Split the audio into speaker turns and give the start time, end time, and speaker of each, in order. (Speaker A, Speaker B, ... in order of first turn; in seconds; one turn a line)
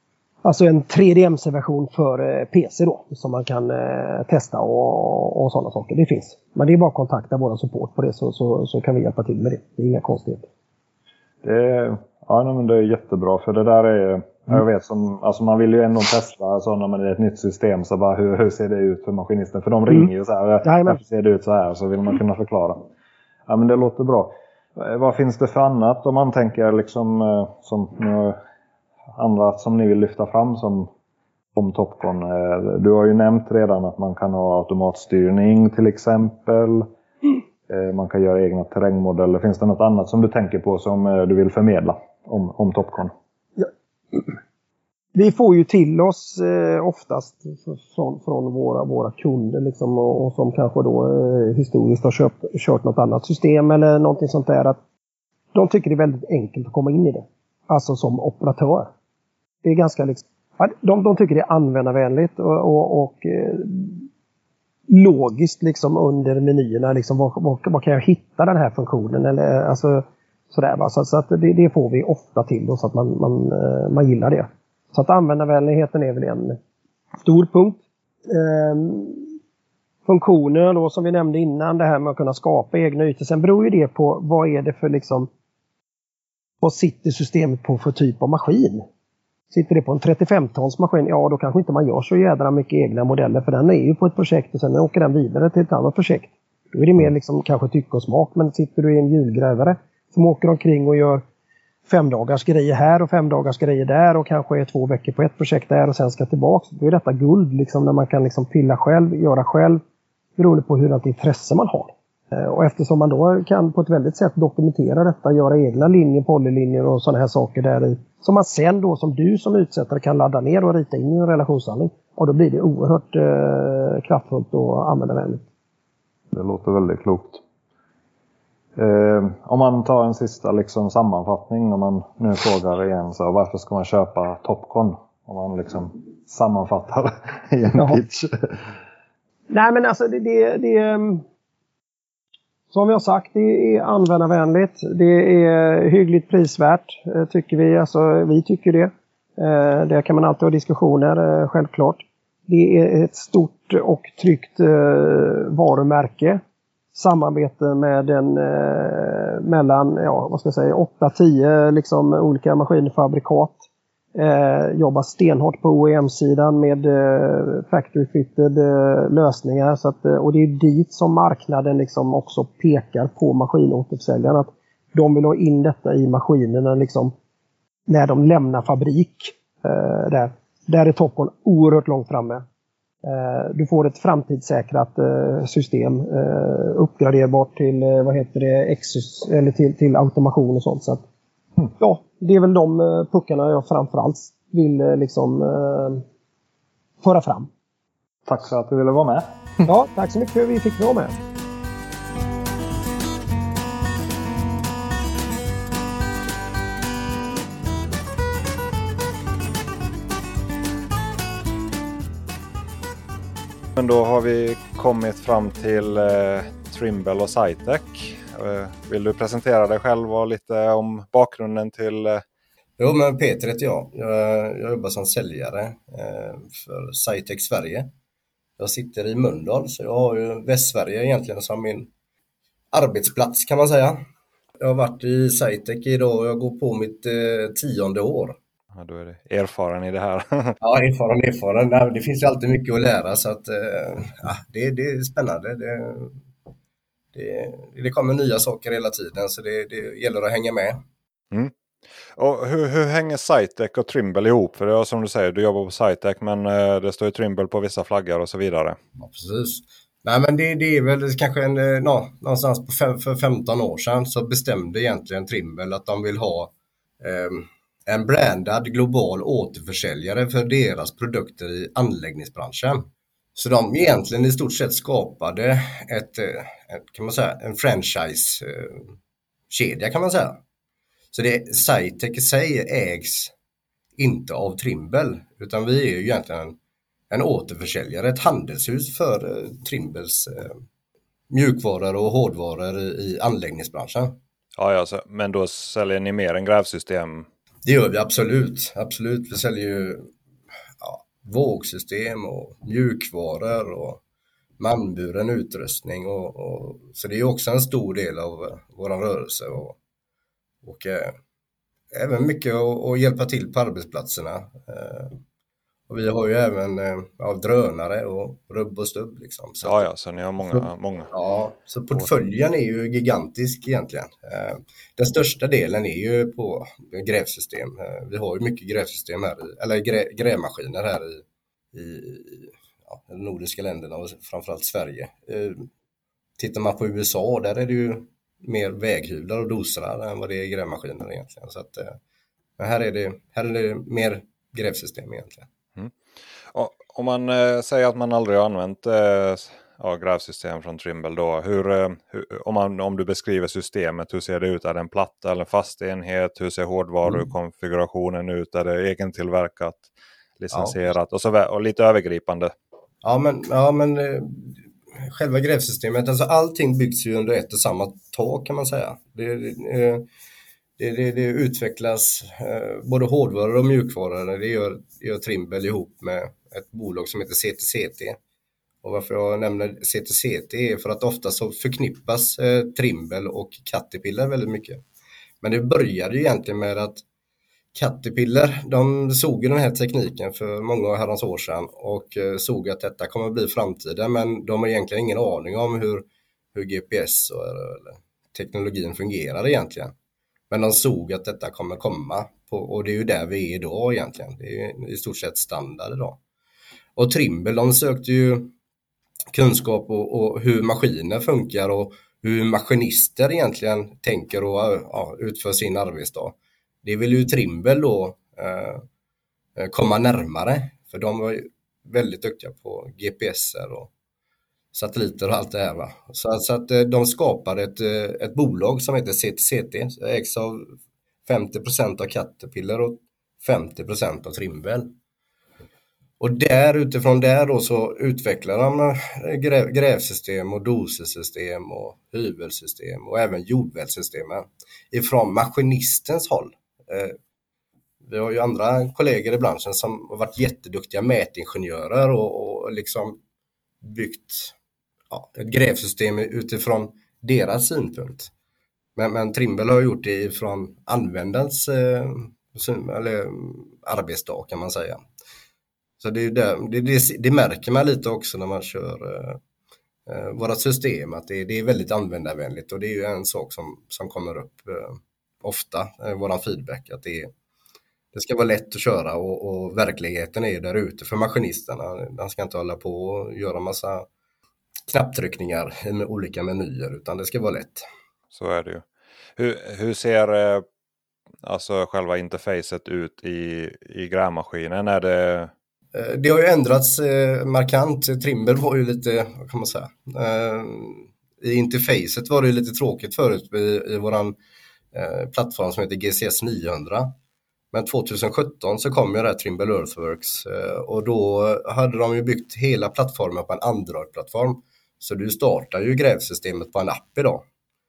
Speaker A: 0.4-10.5
Speaker B: 11.4-22.9
Speaker A: 20.6-21.0
Speaker B: 23.5-28.4
Speaker B: 29.2-30.9
Speaker B: 31.5-36.9
Speaker B: 37.7-43.1
Speaker A: 43.6-44.2
Speaker A: 45.1-54.8
Speaker A: 55.5-58.9
Speaker A: 59.6-64.1
Speaker A: 64.9-76.6
Speaker A: 77.2-79.3
Speaker A: 80.0-85.3
Speaker A: 86.6-88.8
Speaker A: 89.5-101.2
Speaker A: 101.9-109.8
Speaker A: 110.4-125.4
Speaker B: 126.3-127.4
Speaker B: 128.8-138.7
Speaker A: 137.7-138.0
Speaker A: 139.5-141.2
Speaker A: 142.7-156.4
Speaker A: 156.9-163.6
Speaker A: 164.2-177.1
Speaker A: 177.9-182.4
Speaker A: 183.0-191.0
Speaker A: 191.8-196.0
Speaker A: 197.0-197.5
Speaker B: 198.2-199.7
Speaker A: 199.6-201.1
Speaker B: 213.7-222.2
Speaker C: 222.8-227.9
Speaker C: 228.6-231.9
Speaker C: 232.7-234.0
Speaker C: 234.6-238.4
Speaker B: 238.7-240.6
Speaker C: 240.6-246.2
Speaker C: 247.1-250.8
Speaker B: 252.1-258.8
Speaker C: 259.0-278.9
Speaker C: 279.5-280.4
Speaker C: 281.1-283.3
Speaker C: 284.0-286.6
Speaker C: 287.1-290.6
Speaker C: 291.3-294.2
Speaker B: 294.6-297.3
Speaker C: 297.6-300.1
Speaker C: 300.8-304.0
Speaker C: 304.6-309.8
Speaker C: 310.6-311.1
Speaker C: 311.9-315.2
Speaker C: 315.9-319.9
Speaker B: 319.6-321.1
Speaker C: 320.4-335.7
Speaker C: 336.4-342.0
Speaker C: 342.6-345.5
Speaker B: 346.5-362.5
Speaker C: 360.5-360.8
Speaker C: 363.0-370.1
Speaker C: 370.8-378.2
Speaker C: 378.8-384.8
Speaker C: 385.4-387.0
Speaker C: 387.7-399.9
Speaker C: 400.5-406.2
Speaker C: 406.9-408.5
Speaker C: 409.3-418.9
Speaker C: 419.6-423.9
Speaker C: 424.7-430.7
Speaker C: 431.2-434.9
Speaker C: 436.2-447.2
Speaker C: 448.0-453.2
Speaker C: 453.8-454.5
Speaker C: 455.1-458.3
Speaker C: 458.9-465.0
Speaker C: 466.0-469.4
Speaker C: 470.1-477.3
Speaker C: 478.1-484.1
Speaker C: 484.9-487.8
Speaker B: 488.3-488.8
Speaker B: 489.4-490.6
Speaker B: 491.4-495.5
Speaker C: 495.9-504.4
Speaker C: 504.9-507.1
Speaker C: 507.7-517.4